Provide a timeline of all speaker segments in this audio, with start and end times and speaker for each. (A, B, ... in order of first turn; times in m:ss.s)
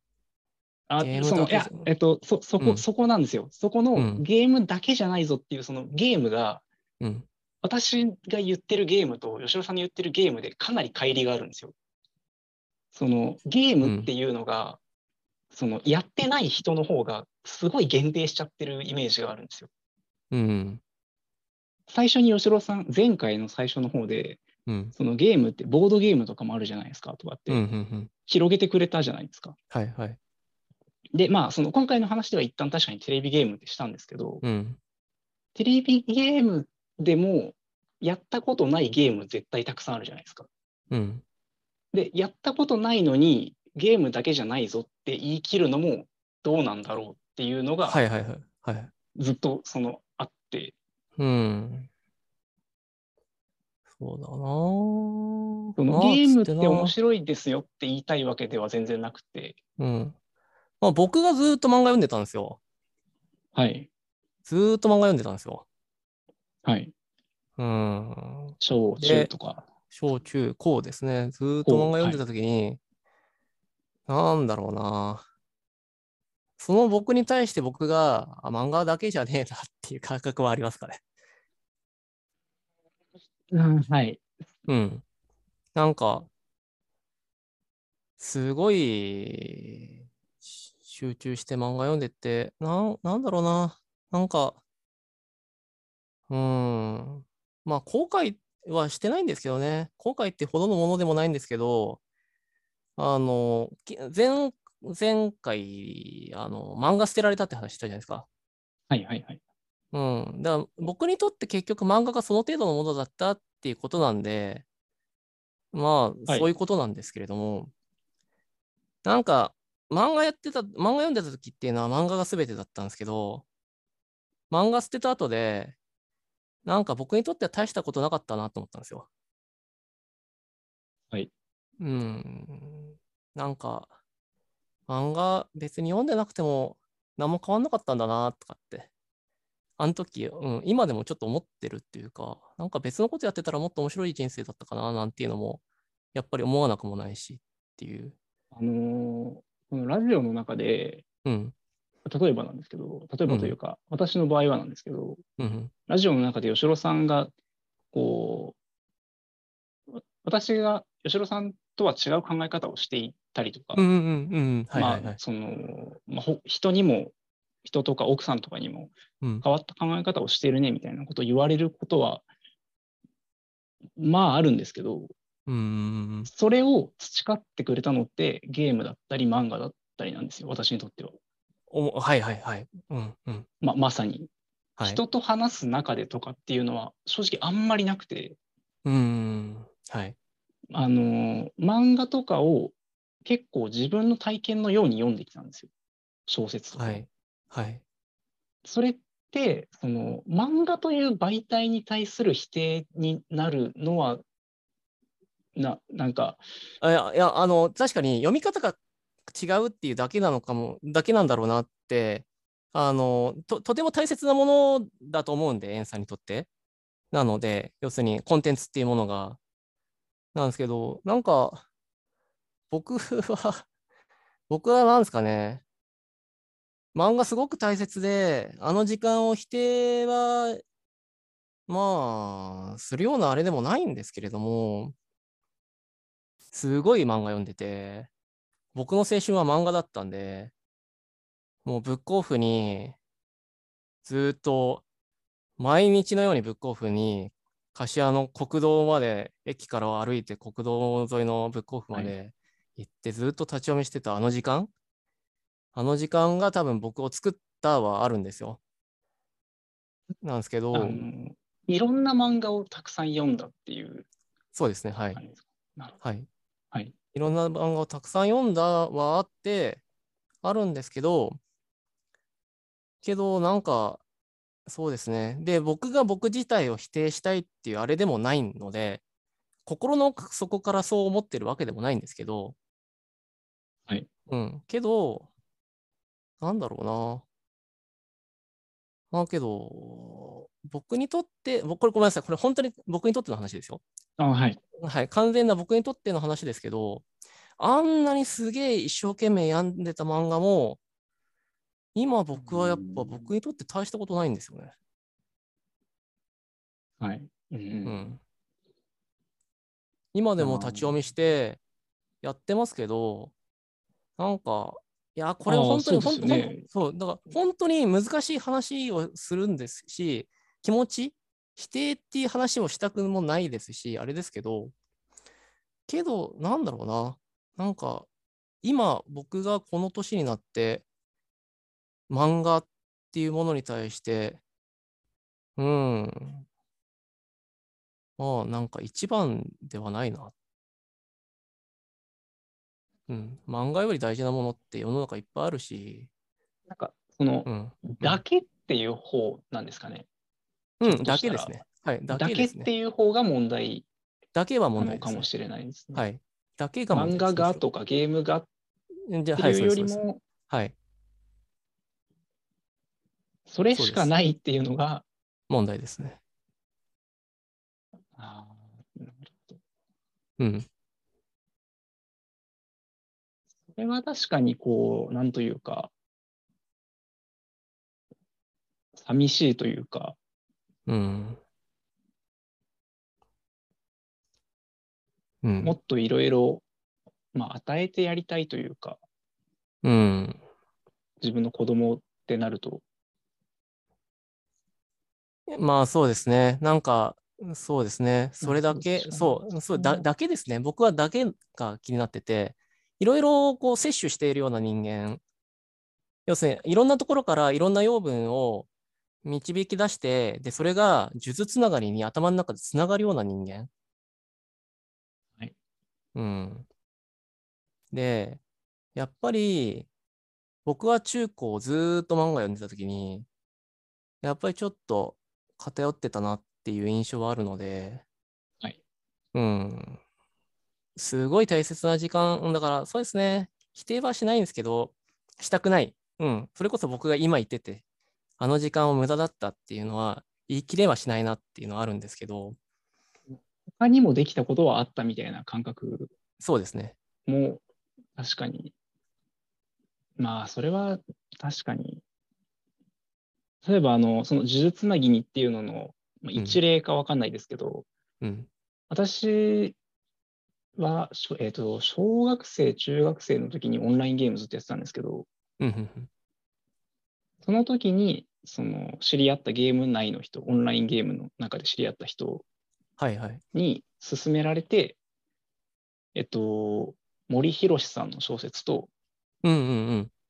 0:00.9-0:06.6 A
0:01.0-0:01.9 B
0:04.0-0:04.2 B
0:07.0-0:07.3 B
0:07.6-0:11.7 A
0:12.9-0:14.8 A
0:13.8-0:14.1 B
0:15.5-0:19.7 A
0:20.3-0:20.8 B
0:21.9-0:27.6 A
0:24.7-0:24.9 B
0:27.5-0:28.1 B
0:28.3-0:29.6 A
0:29.7-0:30.2 B
0:31.1-0:34.4 A
0:34.4-0:34.8 B
0:35.6-0:40.5 A
0:40.9-0:41.2 B
0:41.9-0:48.0 A
0:47.8-0:48.9 B
0:49.2-0:50.8 A
0:51.2-0:51.9 B
0:54.0-0:56.9 B
0:55.8-0:59.6 A
0:59.8-1:00.2 B
1:00.8-1:02.6 B
1:03.6-1:03.9 A
1:04.5-1:05.6 B
1:06.6-1:06.9 A
1:07.6-1:09.3 B
1:08.6-1:09.6 A
1:09.9-1:12.8 B
1:11.6-1:12.2 A
1:14.1-1:15.2 B
1:16.6-1:21.0 B
1:23.5-1:24.2 A
1:24.7-1:25.0 B
1:25.8-1:26.3 B
1:28.2-1:30.1 B
1:30.7-1:34.6 B
1:36.3-1:42.0 B
1:43.0-1:48.3 B
1:48.9-1:49.4 A
1:49.9-1:54.6 B
1:55.7-1:57.7 B
1:59.0-2:03.4 B
2:04.5-2:05.8 B
2:06.6-2:09.1 B
2:11.8-2:13.9 B
2:14.9-2:18.9 B
2:19.8-2:25.6 B
2:26.1-2:28.2 B
2:28.5-2:31.0 A
2:31.2-2:31.5 B
2:32.1-2:35.2 A
2:33.3-2:33.6 B
2:35.4-2:35.7 B
2:35.9-2:37.3 A
2:37.9-2:38.6 A
2:40.0-2:43.8 A
2:43.8-2:45.2 B
2:44.7-2:47.1 A
2:47.6-2:52.2 A
2:54.0-2:55.1 A
2:55.5-2:56.3 B
2:56.3-3:01.2 A
3:01.7-3:03.5 B
3:03.6-3:04.3 A
3:04.8-3:08.4 A
3:08.8-3:10.2 B
3:10.7-3:15.7 A
3:16.3-3:17.0 A
3:16.8-3:17.8 B
3:18.6-3:24.2 A
3:25.6-3:26.4 A
3:26.8-3:28.8 B
3:29.3-3:36.5 B
3:37.1-3:39.4 B
3:40.3-3:41.6 B
3:42.7-3:43.7 B
3:44.5-3:45.6 B
3:46.9-3:50.6 B
3:51.7-3:55.0 B
3:56.5-3:58.1 B
3:58.7-4:00.5 B
4:01.6-4:03.0 B
4:04.0-4:04.8 B
4:05.6-4:14.7 B
4:15.8-4:18.6 B
4:20.2-4:21.0 B
4:20.7-4:24.1 A
4:24.6-4:25.2 B
4:25.2-4:26.0 A
4:26.0-4:26.3 B
4:27.1-4:29.8 B
4:30.4-4:31.4 B
4:33.0-4:34.0 B
4:34.7-4:39.0 B
4:39.7-4:42.6 B
4:44.3-4:45.3 B
4:46.4-4:47.2 B
4:49.1-4:53.8 B
4:54.2-4:54.6 A
4:54.8-4:57.0 B
4:57.6-5:00.8 B
5:02.0-5:04.7 B
5:02.4-5:03.3 A
5:07.0-5:08.1 A
5:07.8-5:08.2 B
5:10.1-5:11.6 B
5:10.4-5:11.0 A
5:12.2-5:13.3 B
5:14.2-5:24.7 B
5:15.5-5:16.6 A
5:25.9-5:28.1 B
5:28.6-5:30.8 B
5:32.1-5:34.4 B
5:35.6-5:36.5 B
5:38.2-5:40.3 B
5:43.1-5:46.1 B
5:46.7-5:50.1 A
5:47.5-5:48.2 B
5:50.8-5:52.7 B
5:50.8-5:51.6 A
5:52.1-5:53.9 A
5:54.4-5:55.3 B
5:54.8-5:56.0 A
5:55.9-5:57.6 B
5:56.9-5:58.5 A
5:59.1-6:00.7 B
5:59.4-6:00.2 A
6:03.5-6:05.1 A
6:03.7-6:04.1 B
6:05.5-6:06.2 B
6:08.2-6:09.6 A
6:10.4-6:10.7 B
6:13.7-6:15.9 A
6:19.0-6:20.2 A
6:20.9-6:21.4 B
6:25.4-6:25.8 B
6:25.6-6:26.6 A
6:27.3-6:29.0 A
6:29.8-6:30.4 B
6:31.2-6:32.8 A
6:35.5-6:45.2 B
6:38.4-6:40.1 A
6:46.3-6:48.7 B
6:49.2-6:53.7 B
6:56.2-6:56.7 B
6:57.9-6:58.4 B
6:59.0-6:59.9 B
7:00.6-7:03.3 B
7:04.2-7:08.0 B
7:09.3-7:10.0 B
7:11.0-7:17.8 B
7:18.4-7:22.6 B
7:23.3-7:26.1 A
7:26.4-7:27.0 B
7:27.3-7:27.6 A
7:28.2-7:28.7 A
7:30.2-7:32.0 A
7:33.6-7:37.9 A
7:38.2-7:38.5 B
7:38.9-7:39.8 A
7:40.8-7:45.3 A
7:45.6-7:46.1 B
7:47.4-7:52.4 A
7:53.0-7:53.4 B
7:53.5-7:55.0 A
7:56.2-7:58.9 A
7:59.4-8:00.1 B